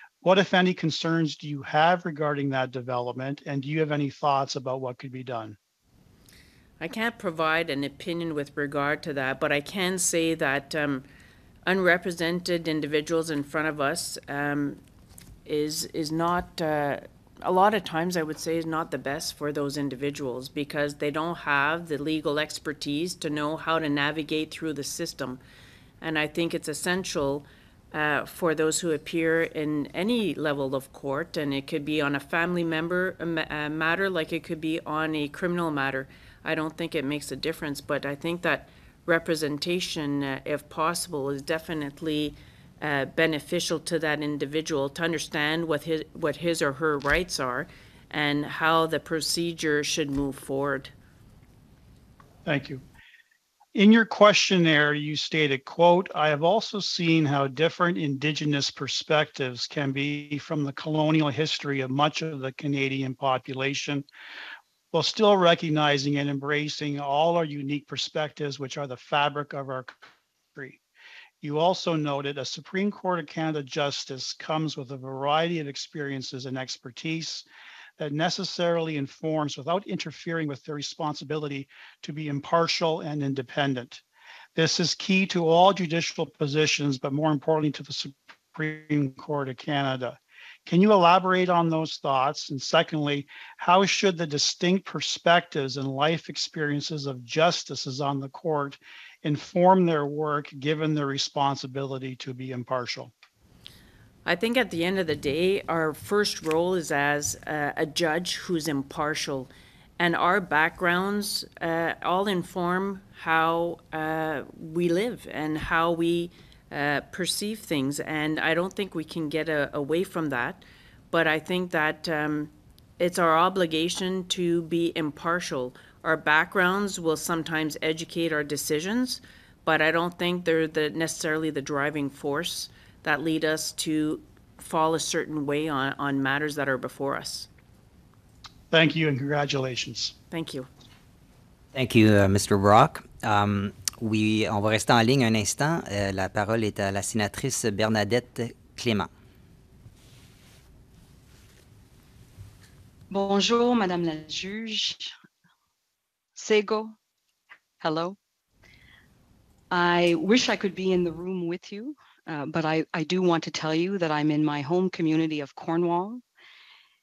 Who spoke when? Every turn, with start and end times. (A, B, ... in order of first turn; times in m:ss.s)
0:00.2-0:05.6 A
0:06.8-0:11.1 B
0:11.7-0:14.8 B
0:15.4-0:25.4 B
0:26.0-0:50.9 B
0:52.5-0:52.8 A
0:53.8-1:04.1 A
1:04.9-1:10.0 A
1:11.4-1:17.5 A
1:18.0-1:24.0 A
1:24.6-1:43.1 A
1:44.2-2:17.5 B
2:18.7-2:20.1 A
2:20.3-2:20.7 B
2:21.7-2:29.1 C
2:33.1-2:35.2 D
2:36.4-2:37.0 D
2:37.8-2:38.2 D
2:39.7-2:46.2 D